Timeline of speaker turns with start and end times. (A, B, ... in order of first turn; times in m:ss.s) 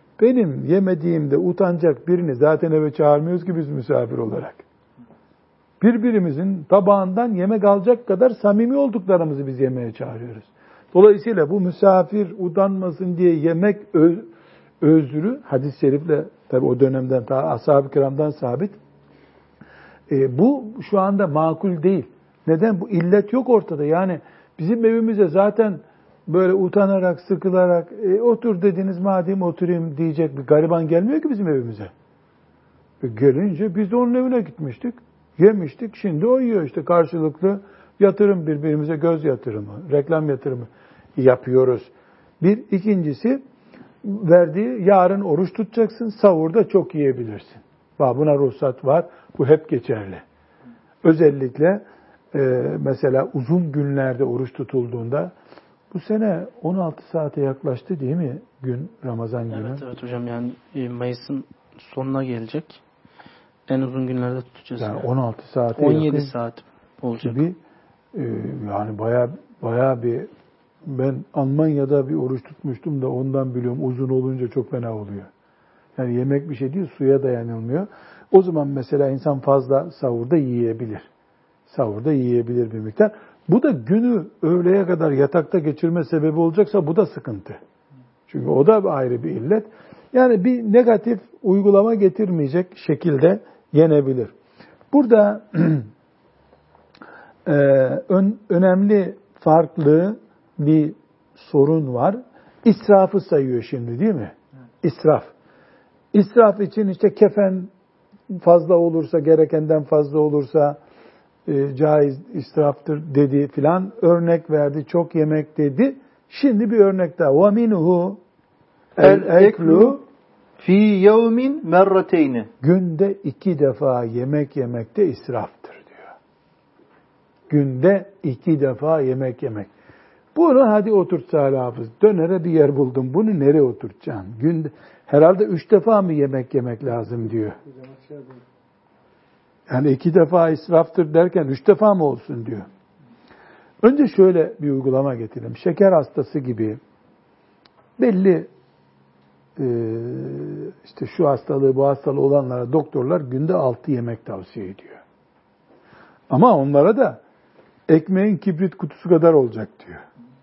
0:00.2-0:04.6 A
0:05.8-0:14.3 A
0:14.8-0:18.8 A
0:20.1-0:31.9 A
0:33.0-0:43.4 A
0:44.0-0:50.2 A
0:51.0-0:55.3 A
0:55.9-0:59.8 A
0:59.5-1:02.8 B
1:03.7-1:05.1 B
1:04.8-1:06.3 A
1:05.8-1:07.4 B
1:07.2-1:07.6 A
1:08.1-1:10.3 A
1:10.8-1:15.3 A
1:16.0-1:21.1 A
1:21.7-1:27.6 A
1:28.3-1:34.3 A
1:34.9-1:35.9 A
1:37.4-1:45.3 A
1:46.1-1:47.7 A
1:48.3-1:50.8 A
1:51.4-1:58.2 A
1:59.0-2:00.0 A
1:59.0-2:00.0 C
2:00.6-2:02.5 C
2:02.6-2:06.1 A
2:07.5-2:09.7 A
2:10.3-2:17.6 A
2:19.7-2:22.7 A
2:23.8-2:26.8 A
2:28.0-2:28.5 A
2:29.6-2:35.0 A
2:36.3-2:37.2 A
2:37.9-2:40.0 A